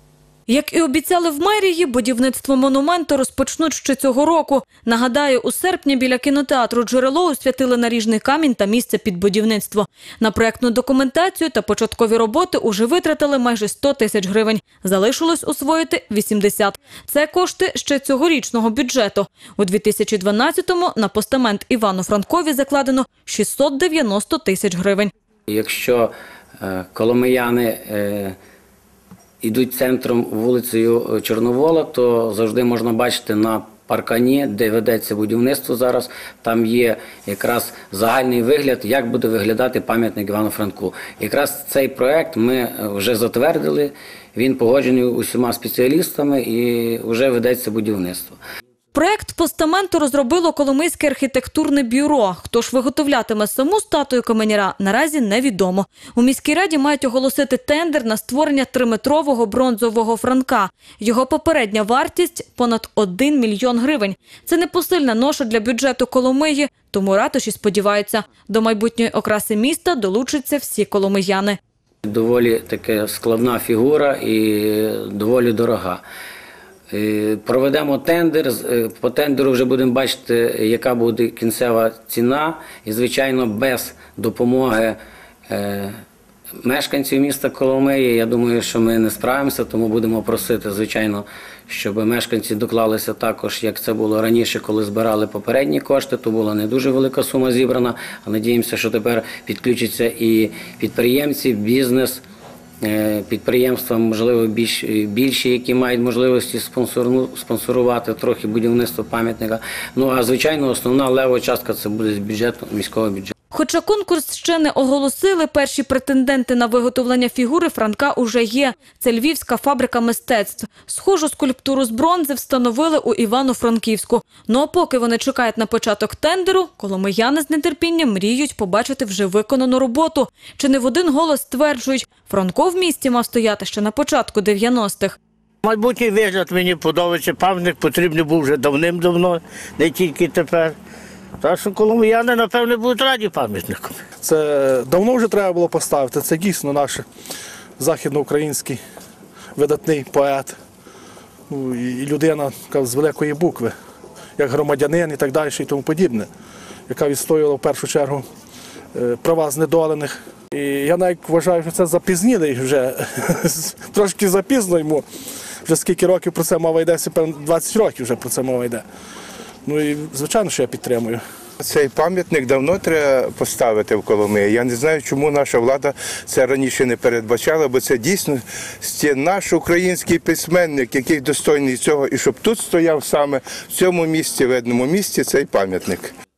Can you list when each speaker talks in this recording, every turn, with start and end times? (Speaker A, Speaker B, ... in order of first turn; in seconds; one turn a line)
Speaker A: 0.5-25.1
Speaker B: 25.5-26.1
Speaker B: 26.6-28.4
Speaker B: 29.4-48.4
Speaker A: 48.9-71.6
Speaker B: 72.0-76.0
Speaker B: 76.9-85.0
Speaker B: 85.5-85.9
Speaker B: 86.6-102.2
Speaker B: 102.8-113.3
Speaker A: 113.5-135.2
Speaker C: 135.6-140.8
Speaker C: 141.4-144.0
Speaker D: 144.2-147.0
Speaker D: 147.8-148.8
Speaker D: 149.6-150.5
Speaker D: 151.5-153.7
Speaker D: 154.4-156.3
Speaker D: 156.9-158.2
Speaker D: 158.9-165.0
Speaker D: 165.6-168.8
Speaker D: 169.7-171.2
Speaker E: 171.6-186.1